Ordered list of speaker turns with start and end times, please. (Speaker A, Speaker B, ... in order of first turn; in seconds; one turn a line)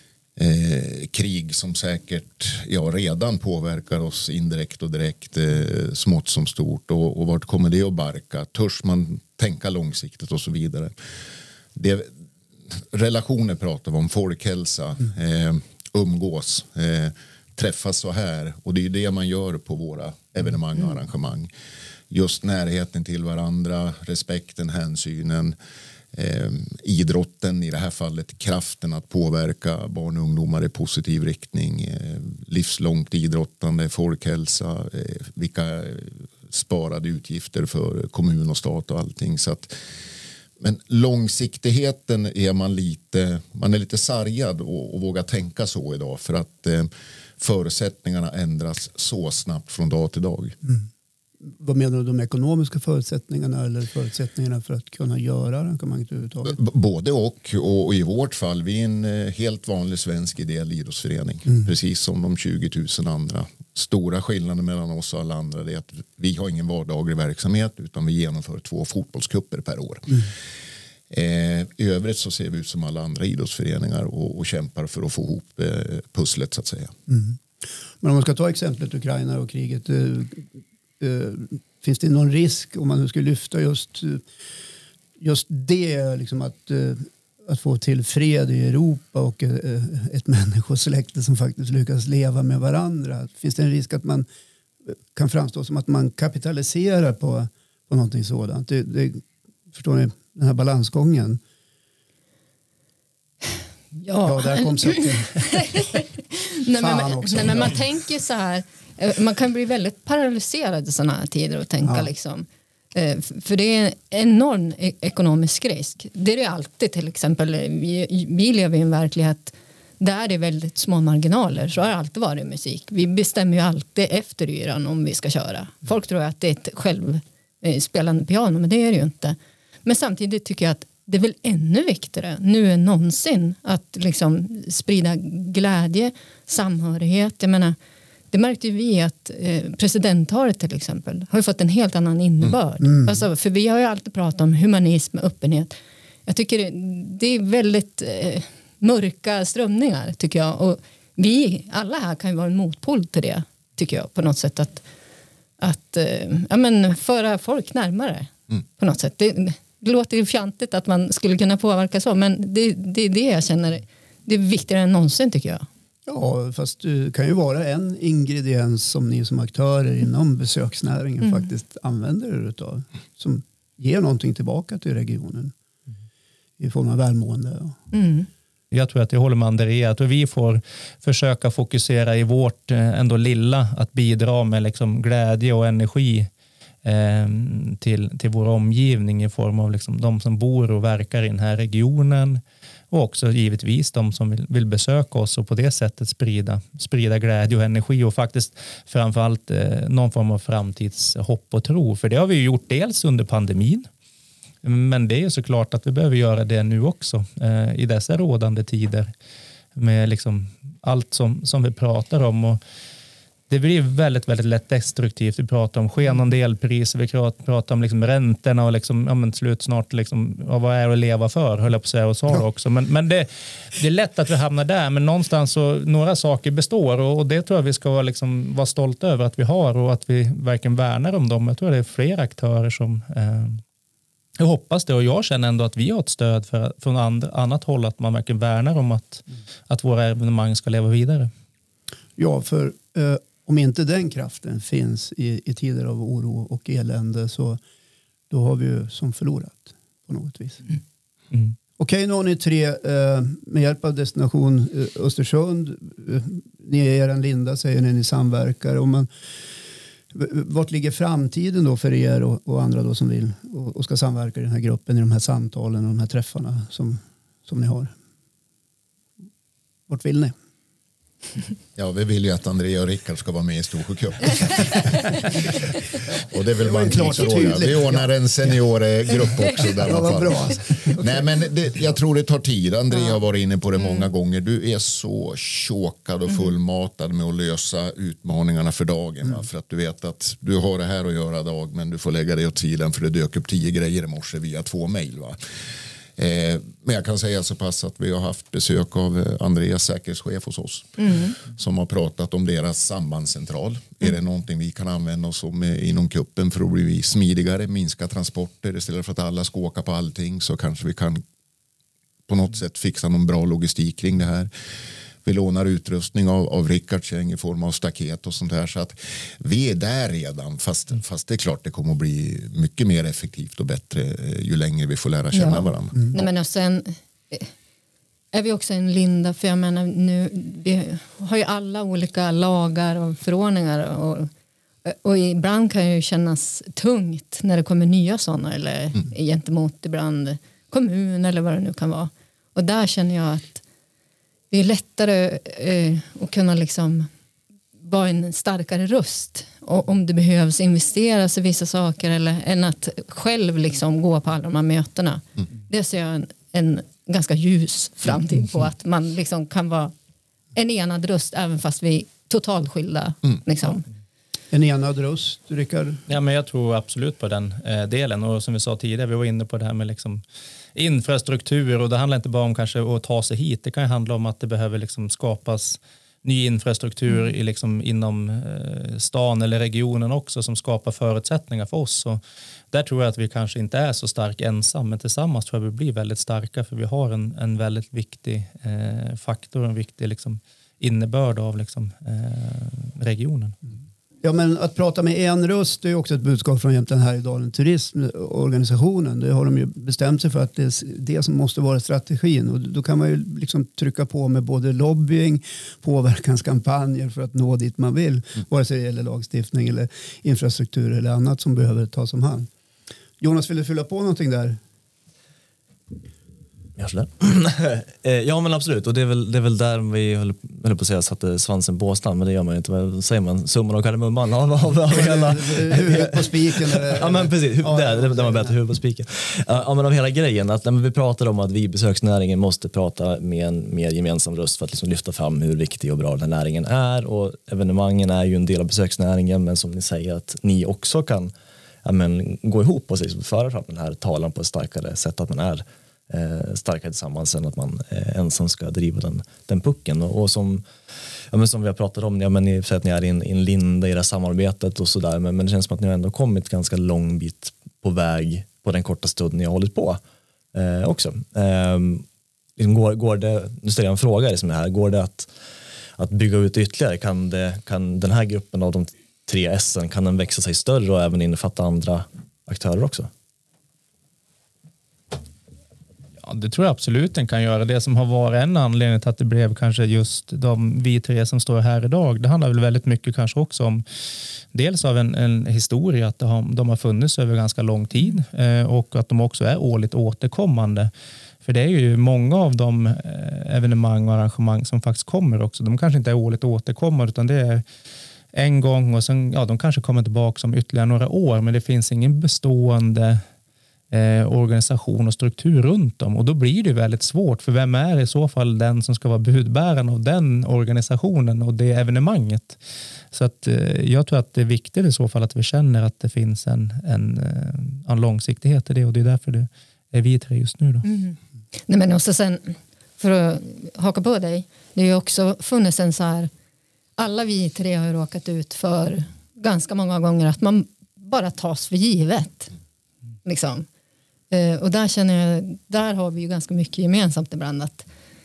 Speaker A: 0.3-10.9
Speaker A: 11.7-12.1
Speaker A: 12.7-21.5
Speaker A: 22.1-25.5
Speaker A: 26.1-39.7
Speaker A: 40.6-50.6
Speaker B: 51.4-56.6
Speaker A: 56.4-70.3
Speaker A: 71.1-76.9
Speaker B: 77.1-77.4
Speaker B: 78.0-84.2
Speaker B: 85.2-94.2
Speaker B: 94.9-101.4
Speaker C: 104.0-137.8
Speaker B: 104.2-105.6
Speaker B: 106.7-107.7
Speaker B: 111.8-112.1
Speaker C: 138.3-154.8
Speaker B: 142.8-143.2
Speaker C: 155.6-165.7
Speaker B: 166.1-175.5
Speaker C: 171.2-171.5
Speaker B: 176.6-177.8
Speaker C: 177.9-178.3
Speaker D: 178.7-186.3
Speaker D: 186.8-203.9
Speaker D: 204.6-209.1
Speaker D: 209.8-212.6
Speaker D: 213.5-233.6
Speaker D: 234.4-241.3
Speaker B: 242.2-247.6
Speaker B: 248.3-250.6
Speaker B: 251.8-259.1
Speaker B: 260.1-267.9
Speaker B: 269.9-270.3
Speaker A: 271.8-295.4
Speaker B: 276.6-278.1
Speaker B: 279.8-281.3
Speaker C: 283.8-284.1
Speaker A: 296.1-311.2
Speaker C: 301.0-301.3
Speaker A: 312.3-314.5
Speaker A: 315.2-326.3
Speaker C: 325.3-327.5
Speaker C: 328.3-334.3
Speaker C: 334.8-343.6
Speaker C: 344.5-347.1
Speaker C: 347.8-359.9
Speaker C: 360.5-363.8
Speaker B: 364.5-366.0
Speaker D: 366.1-370.2
Speaker D: 370.7-382.2
Speaker D: 382.7-393.6
Speaker B: 394.2-412.5
Speaker B: 413.2-414.6
Speaker E: 416.8-441.3
Speaker B: 424.9-428.5
Speaker E: 441.8-450.7
Speaker E: 451.3-460.0
Speaker E: 460.5-462.1
Speaker E: 462.6-465.3
Speaker E: 466.0-473.1
Speaker D: 476.2-483.8
Speaker D: 484.5-490.9
Speaker D: 491.4-497.6
Speaker D: 498.3-503.2
Speaker D: 503.9-512.6
Speaker D: 513.1-520.9
Speaker C: 520.8-526.3
Speaker C: 527.0-532.5
Speaker C: 533.2-533.7
Speaker C: 534.3-537.9